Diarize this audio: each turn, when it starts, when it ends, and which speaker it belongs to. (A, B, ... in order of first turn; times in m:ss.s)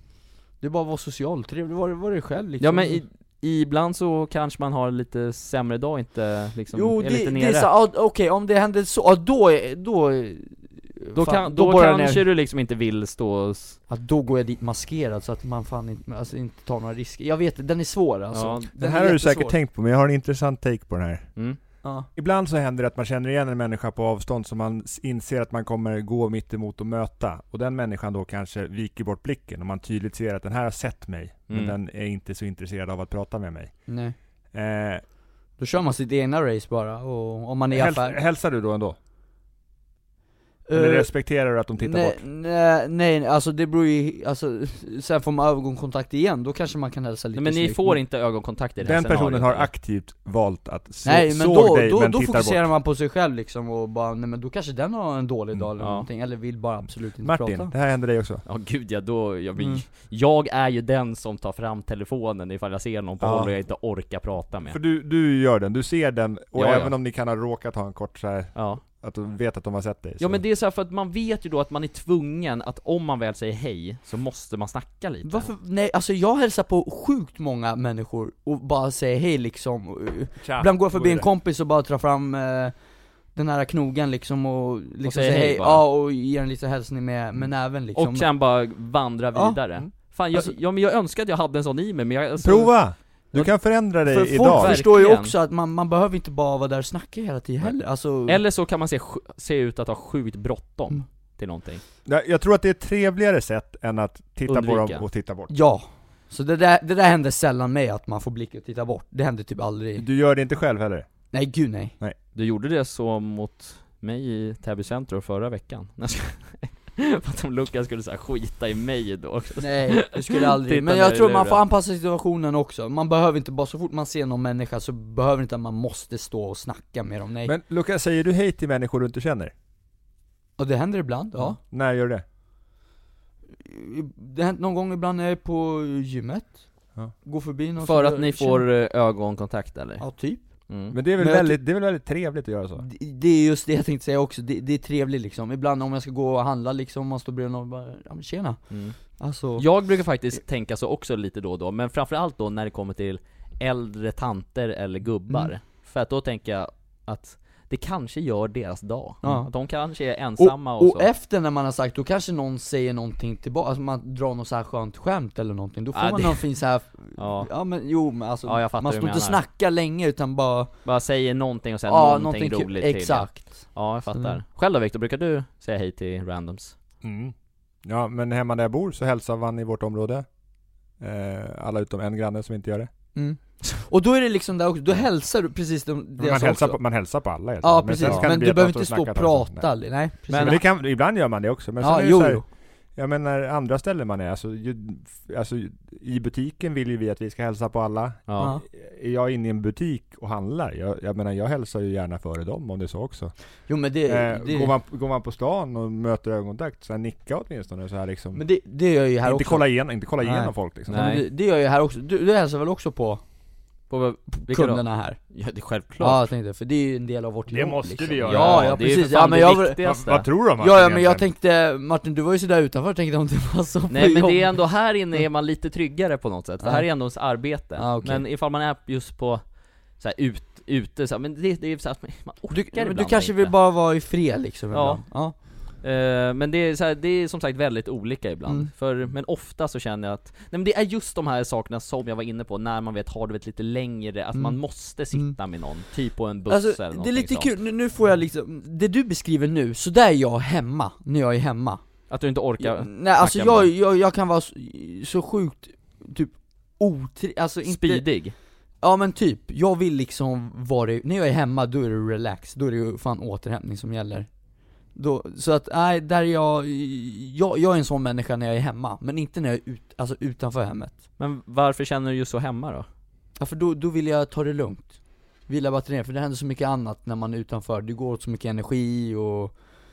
0:00.6-0:03.0 A
0:02.6-0:07.7 B
0:06.7-0:12.3 A
0:11.2-0:13.8 B
0:13.9-0:19.6 A
0:18.3-0:18.7 B
0:18.8-0:21.4 C
0:21.8-0:22.1 A
0:22.2-0:33.9 C
0:31.5-0:31.7 B
0:33.9-0:34.2 A
0:34.5-0:35.0 C
0:35.6-0:38.2 A
0:37.7-0:39.0 C
0:40.7-0:48.0 A
0:40.7-0:42.2 C
0:47.4-0:49.7 B
0:48.8-0:52.7 C
0:51.0-0:57.7 A
0:55.8-0:56.1 B
0:57.2-0:58.4 C
0:58.4-1:04.8 B
0:59.6-0:59.8 A
1:03.2-1:03.5 C
1:04.7-1:10.4 C
1:06.6-1:06.9 B
1:08.6-1:08.8 B
1:10.2-1:15.5 B
1:15.2-1:22.8 A
1:20.4-1:21.3 C
1:23.3-1:28.3 A
1:25.0-1:25.8 B
1:28.0-1:32.8 B
1:32.4-1:34.8 C
1:33.4-1:38.4 A
1:34.6-1:35.3 B
1:38.3-1:41.8 B
1:42.1-1:45.5 C
1:44.5-1:45.0 B
1:45.5-1:50.0 A
1:50.0-1:51.1 C
1:51.3-1:52.0 A
1:52.3-2:01.6 B
1:59.6-2:07.5 A
2:07.4-2:09.5 C
2:10.6-2:11.6 A
2:11.5-2:12.2 C
2:13.6-2:16.7 A
2:17.2-2:18.7 A
2:17.8-2:20.0 B
2:20.0-2:20.5 A
2:20.7-2:21.0 B
2:20.9-2:22.8 C
2:21.2-2:21.6 A
2:22.8-2:29.7 A
2:28.7-2:29.0 B
2:29.6-2:41.1 B
2:39.2-2:39.7 A
2:40.4-2:50.8 A
2:45.9-2:46.6 B
2:47.2-2:47.5 B
2:48.5-2:49.4 B
2:50.8-2:56.8 B
2:51.9-2:54.4 A
2:57.0-3:00.3 C
3:01.0-3:02.9 C
3:03.2-3:06.8 A
3:06.2-3:09.7 C
3:07.6-3:10.6 A
3:08.0-3:08.3 B
3:10.3-3:10.6 B
3:10.3-3:12.4 C
3:11.8-3:12.4 A
3:13.0-3:23.4 C
3:18.3-3:18.5 B
3:18.4-3:18.6 A
3:23.7-3:24.7 A
3:24.1-3:28.4 C
3:28.4-3:33.2 A
3:29.2-3:31.0 C
3:30.9-3:31.2 B
3:33.9-3:36.3 B
3:34.4-3:35.3 A
3:36.0-3:44.7 A
3:37.5-3:39.0 C
3:38.2-3:40.3 B
3:39.8-3:41.3 C
3:43.9-3:53.6 B
3:46.6-3:46.9 A
3:47.6-3:48.2 A
3:52.5-3:55.4 A
3:54.7-4:07.5 B
4:04.4-4:05.4 A
4:06.5-4:11.9 A
4:12.1-4:13.7 B
4:12.6-4:24.3 A
4:17.6-4:18.4 B
4:24.9-4:31.0 A
4:31.2-4:32.9 B
4:33.4-4:39.6 A